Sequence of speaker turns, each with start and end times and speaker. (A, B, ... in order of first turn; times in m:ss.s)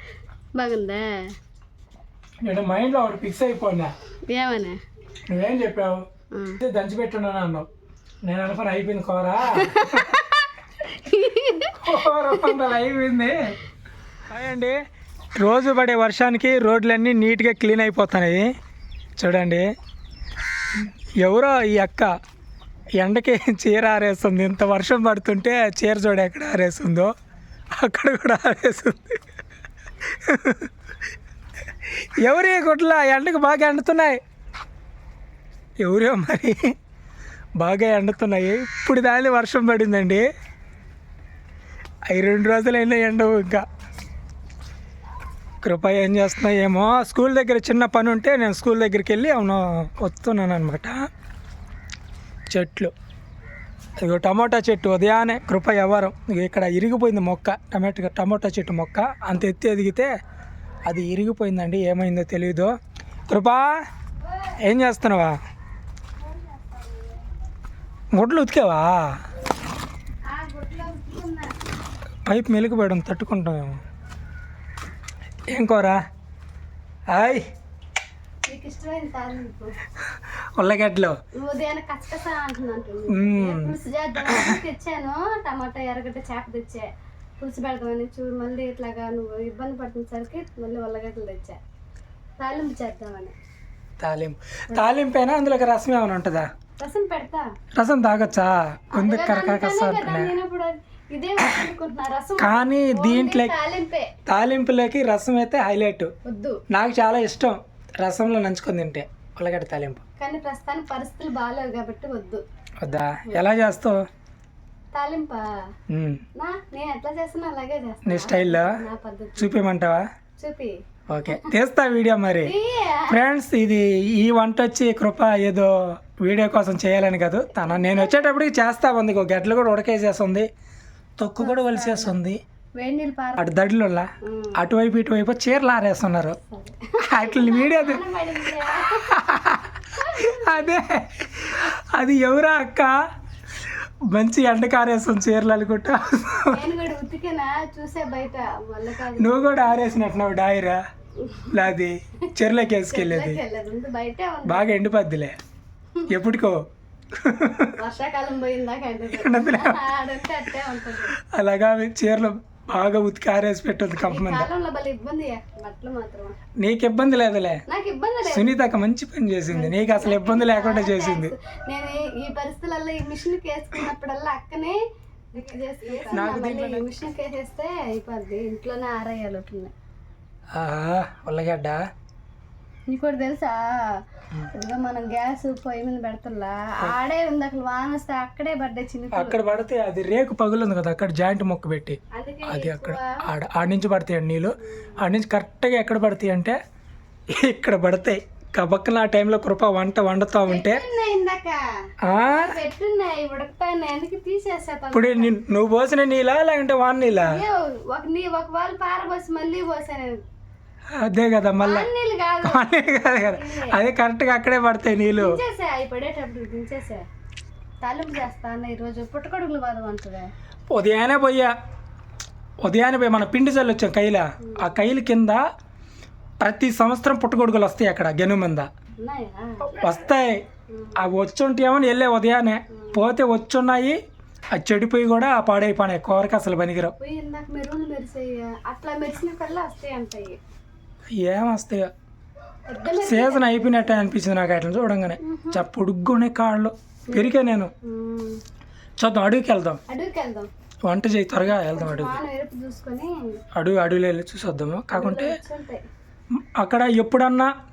0:00.6-0:01.2 A
0:02.4-0:03.9 B
0:04.3-0:04.8 A
0:05.3-0:06.0 B
0:06.3-0:06.6 A
0:06.6-0:07.7 B
0:08.2-0:10.2 B
0:09.5-0:12.6 A
0:11.8-0:13.4 B
0:14.3-0:14.8 B
0:15.4-0:18.5 B
0:19.2-0:19.7 B
0:20.8-0:22.1 B
0:23.0-0:27.1 B
0:27.8-0:29.2 B
0:30.1-0:30.7 B
0:32.2-0:34.2 B
0:35.8-0:36.7 B
0:37.6-0:40.2 B
0:42.1-0:43.6 B
0:45.6-0:51.0 B
0:52.5-0:52.9 B
0:54.0-1:00.1 B
1:00.9-1:02.7 B
1:03.3-1:03.7 B
1:04.2-1:04.6 A
1:04.6-1:05.4 B
1:06.2-1:07.2 A
1:08.1-1:09.0 B
1:10.3-1:11.5 A
1:12.2-1:13.8 B
1:15.5-1:16.0 B
1:17.1-1:17.4 B
1:18.5-1:19.7 A
1:20.6-1:21.2 B
1:21.4-1:31.6 A
1:23.1-1:24.6 B
1:32.4-1:33.3 A
1:34.0-1:36.5 B
1:36.8-1:37.5 A
1:37.8-1:40.3 B
1:39.0-1:44.1 A
1:42.4-1:43.5 B
1:44.2-1:46.1 B
1:46.2-1:46.6 A
1:46.7-1:50.0 B
1:50.2-1:52.4 A
1:52.8-1:54.0 B
1:54.9-1:55.4 A
1:55.9-1:56.2 B
1:56.4-1:59.6 A
1:58.0-1:58.8 B
1:59.4-2:00.0 B
2:00.4-2:01.5 A
2:01.1-2:02.5 B
2:02.4-2:03.2 A
2:03.1-2:10.5 B
2:07.6-2:08.4 A
2:11.2-2:12.4 B
2:11.4-2:12.2 A
2:12.8-2:13.6 A
2:13.4-2:16.4 B
2:14.2-2:14.6 A
2:16.5-2:19.2 A
2:17.1-2:18.0 B
2:18.8-2:22.9 B
2:19.9-2:20.7 A
2:24.1-2:26.6 B
2:26.5-2:29.9 A
2:29.2-2:30.8 B
2:31.2-2:31.7 A
2:31.5-2:33.4 B
2:32.9-2:34.7 A
2:34.4-2:35.3 B
2:36.1-2:36.6 B
2:37.1-2:37.8 B
2:37.7-2:41.1 A
2:39.1-2:39.8 B
2:41.0-2:44.5 B
2:44.1-2:46.3 A
2:46.6-2:47.6 B
2:47.7-2:48.7 A
2:48.2-2:51.3 B
2:49.5-2:54.8 A
2:55.3-2:59.7 A
2:56.1-2:56.8 B
3:00.5-3:01.8 B
3:02.9-3:04.0 A
3:04.5-3:09.4 A
3:09.1-3:16.6 B
3:12.1-3:13.2 A
3:17.3-3:20.8 B
3:20.4-3:25.3 A
3:22.0-3:22.6 B
3:24.9-3:27.4 B
3:27.2-3:30.2 A
3:30.9-3:31.9 B
3:31.6-3:33.8 A
3:32.4-3:35.4 B
3:35.2-3:37.0 A
3:37.8-3:40.3 A
3:40.7-3:41.5 B
3:42.6-3:45.4 B
3:44.4-3:44.7 A
3:46.4-3:48.7 B
3:49.0-3:49.8 A
3:49.7-3:50.4 B
3:50.7-3:51.0 A
3:51.0-3:54.0 B
3:54.6-3:56.9 B
3:57.0-4:00.4 A
4:01.1-4:01.9 B
4:02.7-4:04.0 A
4:03.0-4:07.7 B
4:05.2-4:05.6 A
4:07.1-4:08.4 A
4:09.0-4:09.8 B
4:09.9-4:10.5 A
4:10.9-4:12.2 B
4:11.5-4:13.1 A
4:13.6-4:15.3 B
4:14.9-4:15.8 A
4:16.6-4:17.5 B